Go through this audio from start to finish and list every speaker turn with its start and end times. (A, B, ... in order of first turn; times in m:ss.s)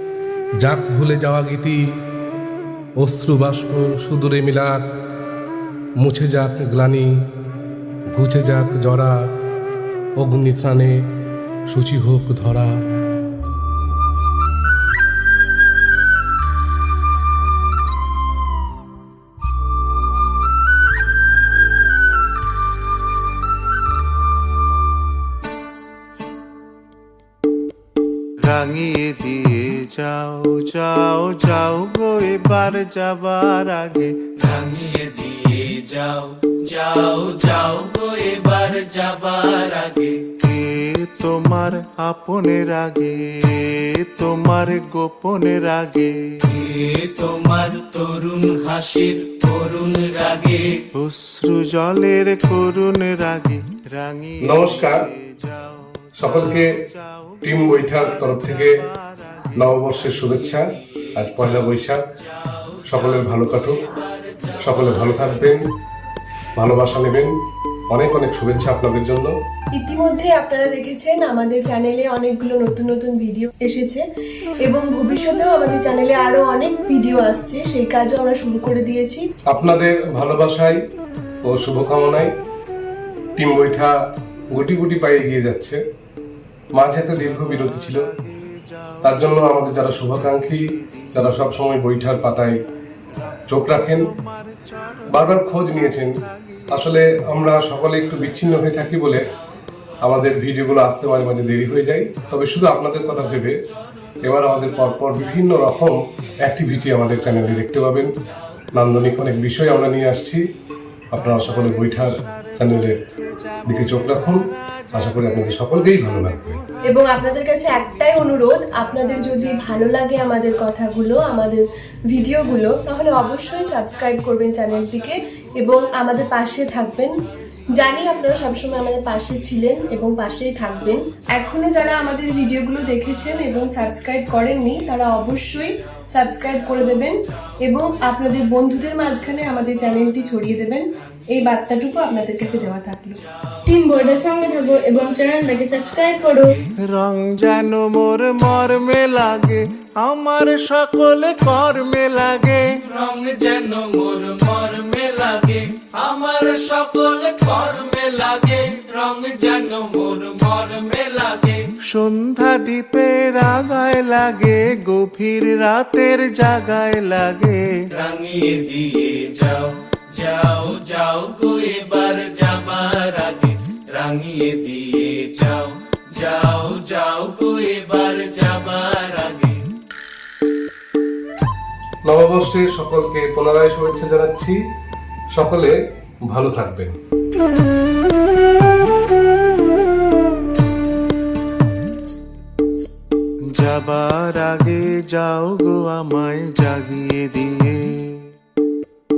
0:00.6-0:02.0 A
0:03.0-0:05.0 A
0:06.0-0:07.2 A
0:08.1-0:09.2 A
0:10.2-0:11.0 A
0:11.7-0:12.8 A
0:28.4-0:34.2 B
0:34.4-0:40.3 C
0:40.4-0:46.4 B
0:46.4-0:50.8 C
0:50.9-0:59.5 B
0:54.4-0:55.0 A
0:56.2-0:56.7 A
0:57.4-0:58.8 A
0:59.5-1:02.0 A
1:02.5-1:05.4 C
1:02.8-1:03.8 A
1:04.6-1:05.6 A
1:06.6-1:07.3 A
1:07.9-1:09.3 A
1:09.7-1:14.0 D
1:14.6-1:19.2 D
1:19.5-1:20.8 A
1:21.4-1:22.3 A
1:23.4-1:24.0 A
1:24.5-1:25.8 A
1:26.7-1:28.0 A
1:27.3-1:31.2 B
1:29.0-1:32.6 A
1:33.5-1:34.1 A
1:33.7-1:37.0 B
1:35.1-1:36.2 A
1:36.7-1:39.2 A
1:40.0-1:43.6 A
1:44.2-1:48.1 A
1:48.7-1:50.4 A
1:51.1-1:53.0 A
1:51.5-1:56.8 B
1:53.6-1:56.6 A
1:56.8-2:07.1 D
2:07.8-2:23.2 D
2:23.6-2:26.6 E
2:26.8-2:32.7 B
2:32.8-2:41.6 C
2:41.8-2:47.8 B
2:47.9-2:59.7 C
3:02.0-3:04.6 A
3:05.3-3:05.7 A
3:06.3-3:07.0 A
3:13.4-3:18.3 B